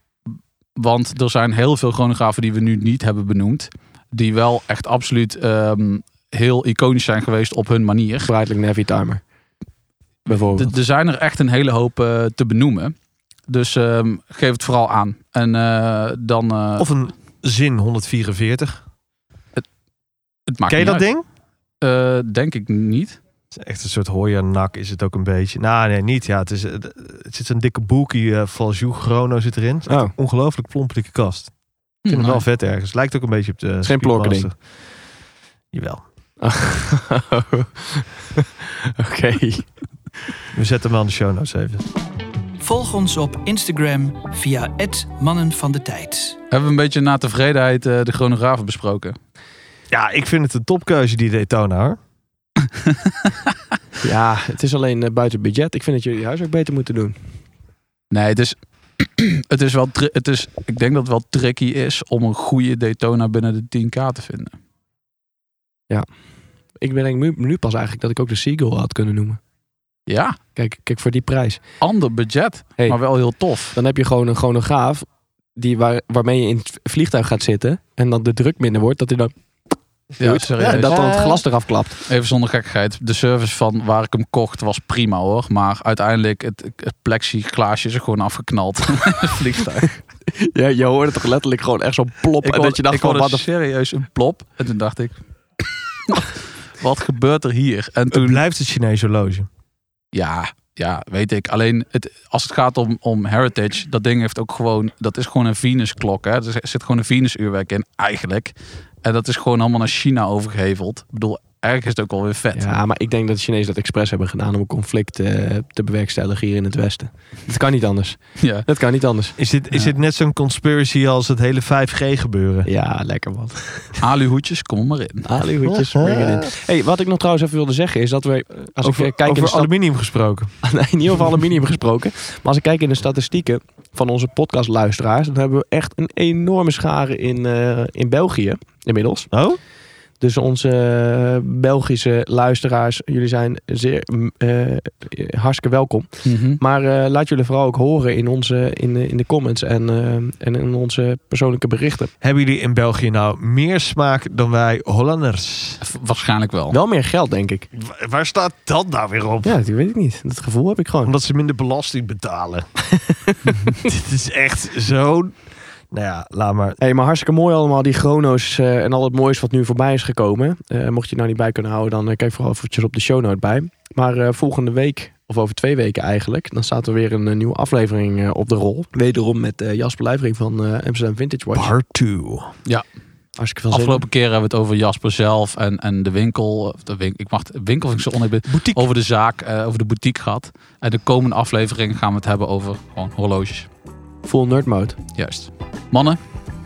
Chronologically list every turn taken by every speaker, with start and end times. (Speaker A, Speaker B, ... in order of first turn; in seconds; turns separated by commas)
Speaker A: 0.8-8.3, Speaker B: 8.2-9.2, Speaker A: 10.3-12.9, Speaker B: 10.3-10.7, Speaker A: 13.5-16.9, Speaker C: 16.8-18.8, Speaker A: 20.5-21.1, Speaker C: 20.7-21.2, Speaker A: 21.8-23.2, Speaker C: 23.5-31.5, Speaker B: 29.9-30.1, Speaker A: 32.0-32.4, Speaker C: 32.1-34.5, Speaker B: 33.8-34.5, Speaker C: 35.7-36.0, Speaker B: 36.4-39.7, Speaker C: 40.5-41.8, Speaker D: 42.6-46.4, Speaker A: 46.5-49.2, Speaker C: 49.9-52.0, Speaker A: 52.8-53.4, Speaker B: 54.0-57.2, Speaker A: 58.1-64.6, Speaker B: 66.8-69.4, Speaker A: 70.1-70.4, Speaker B: 70.5-71.6, Speaker A: 71.8-73.8, Speaker B: 73.8-75.0, Speaker B: 75.6-79.3, Speaker B: 80.2-82.0, Speaker A: 80.2-81.2, Speaker C: 80.7-81.4, Speaker A: 82.1-90.0, Speaker B: 90.3-93.4, Speaker A: 92.4-95.2, Speaker A: 96.1-98.4, Speaker C: 98.1-99.5, Speaker A: 100.1-112.7, Speaker B: 112.6-119.4, Speaker A: 118.4-118.7, Speaker C: 119.4-122.7, Speaker B: 122.7-123.9, Speaker A: 124.0-125.3, Speaker B: 125.3-129.7, Speaker C: 125.7-126.5, Speaker C: 128.8-130.5, Speaker B: 130.6-139.3, Speaker C: 139.3-139.6, Speaker B: 140.2-152.1, Speaker A: 146.2-146.6, Speaker C: 152.2-155.8, Speaker A: 155.8-156.8, Speaker B: 156.7-157.7, Speaker C: 157.7-159.6, Speaker B: 159.4-161.1, Speaker C: 161.0-162.7, Speaker C: 163.7-165.4, Speaker C: 165.9-166.8, Speaker B: 166.8-181.7, Speaker C: 181.5-182.5, Speaker B: 183.4-184.0, Speaker A: 183.7-193.7, Speaker C: 188.5-188.8, Speaker B: 194.2-195.0, Speaker A: 195.2-196.2